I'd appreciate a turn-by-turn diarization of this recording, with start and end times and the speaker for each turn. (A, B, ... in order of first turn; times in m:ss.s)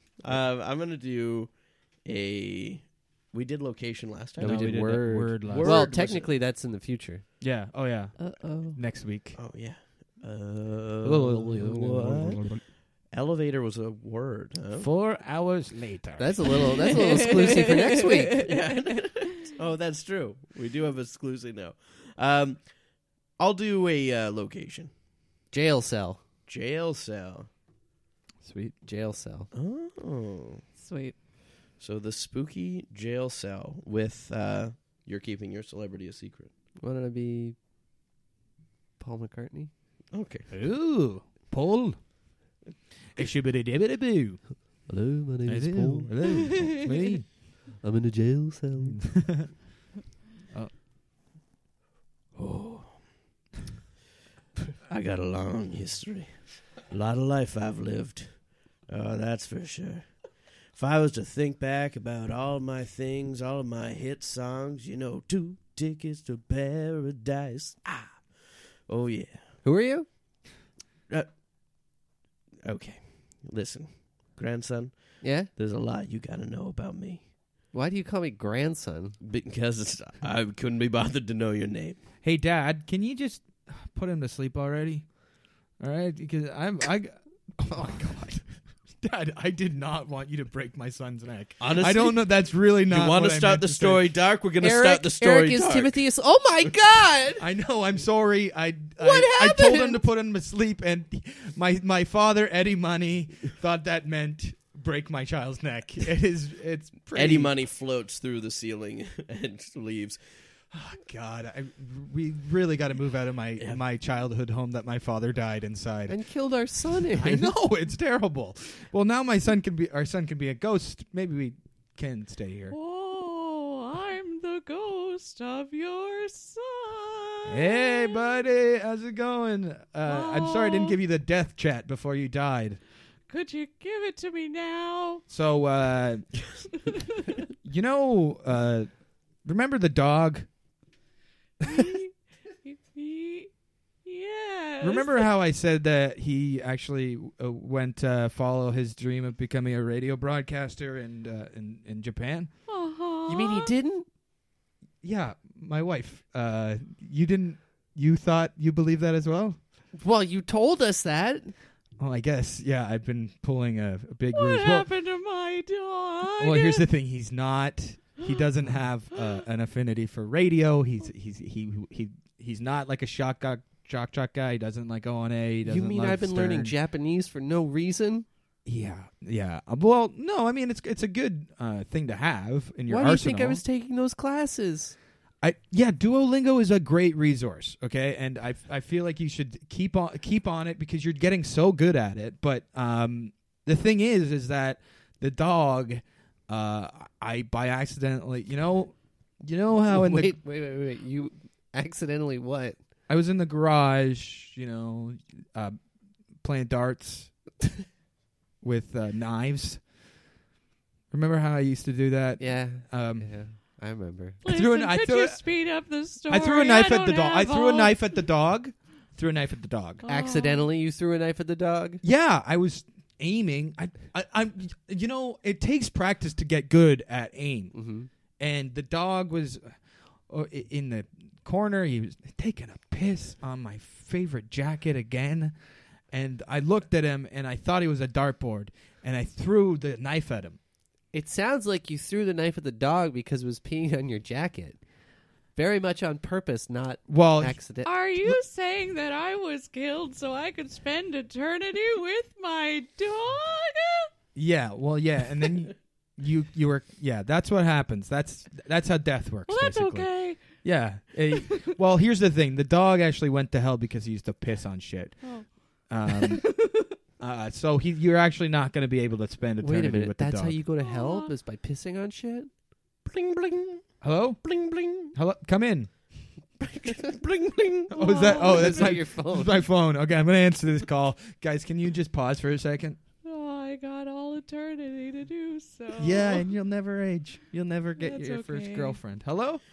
0:00.2-0:06.3 A
0:04.4-0:07.3 B
0:04.4-0:05.9 C
0:07.4-0:09.4 C
0:08.2-0:08.8 D
0:08.4-0:08.8 B
0:09.4-0:14.9 A
0:11.0-0:12.6 C
0:14.8-0:16.7 C
0:16.2-0:18.4 B
0:16.9-0:19.1 D
0:18.4-0:22.8 A
0:23.4-0:24.9 A
0:25.5-0:26.2 B
0:26.5-0:27.5 A
0:28.4-0:28.8 C
0:28.8-0:29.5 B
0:29.5-0:30.6 A
0:30.8-0:31.2 D
0:31.8-0:36.5 A
0:36.8-0:37.6 B
0:39.0-0:39.7 B
0:40.1-0:40.5 A
0:40.5-0:42.2 C
0:43.2-0:44.6 C
0:44.9-0:46.6 B
0:45.5-0:47.3 C
0:46.6-0:47.1 D
0:47.8-0:49.2 B
0:48.8-0:49.6 C
0:52.4-0:53.0 A
0:54.9-1:09.4 A
1:09.6-1:10.1 B
1:12.6-1:17.3 A
1:15.2-1:15.5 B
1:17.7-1:19.2 B
1:19.2-1:22.0 A
1:22.2-1:25.2 C
1:25.8-1:34.1 C
1:31.6-1:36.0 A
1:34.6-1:37.5 B
1:37.4-1:47.5 C
1:39.0-1:40.0 B
1:47.1-1:50.2 A
1:50.7-1:56.2 C
1:56.1-1:57.5 B
1:57.2-2:02.8 C
2:02.7-2:08.4 D
2:07.5-2:12.8 C
2:10.0-2:11.0 D
2:13.3-2:15.2 D
2:15.3-2:16.3 C
2:17.6-2:20.5 C
2:21.6-2:22.1 D
2:22.6-2:23.5 D
2:24.0-2:25.3 D
2:24.8-2:32.5 C
2:32.7-2:33.7 D
2:33.3-2:34.1 B
2:35.0-2:39.6 C
2:40.0-2:41.5 B
2:42.0-2:44.9 C
2:44.3-2:46.9 D
2:46.4-2:56.8 C
2:55.6-2:58.3 B
2:58.6-3:03.6 C
3:02.9-3:05.0 B
3:05.4-3:20.4 C
3:19.9-3:22.8 B
3:23.1-3:25.8 C
3:26.4-3:27.3 C
3:28.6-3:29.9 C
3:31.1-3:33.4 C
3:32.4-3:34.4 B
3:34.4-3:38.1 D
3:34.5-3:35.5 C
3:36.3-3:40.0 C
3:40.0-3:40.7 D
3:40.0-3:42.0 B
3:42.0-3:47.8 C
3:47.7-3:48.1 B
3:48.4-3:55.6 C
3:56.1-4:00.6 C
4:01.1-4:04.8 B
4:05.6-4:07.9 B
4:07.1-4:07.6 C
4:07.8-4:14.1 D
4:14.4-4:30.6 C
4:19.5-4:20.6 D
4:25.2-4:26.9 D
4:29.6-4:32.5 B
4:30.8-4:31.3 D
4:33.0-4:33.8 A
4:34.0-4:36.1 C
4:34.4-4:35.1 A
4:36.6-4:38.2 A
4:37.9-4:43.0 C
4:38.0-4:38.8 D
4:38.4-4:39.6 B
4:43.2-4:46.5 D
4:46.0-4:49.6 C
4:48.0-4:49.0 D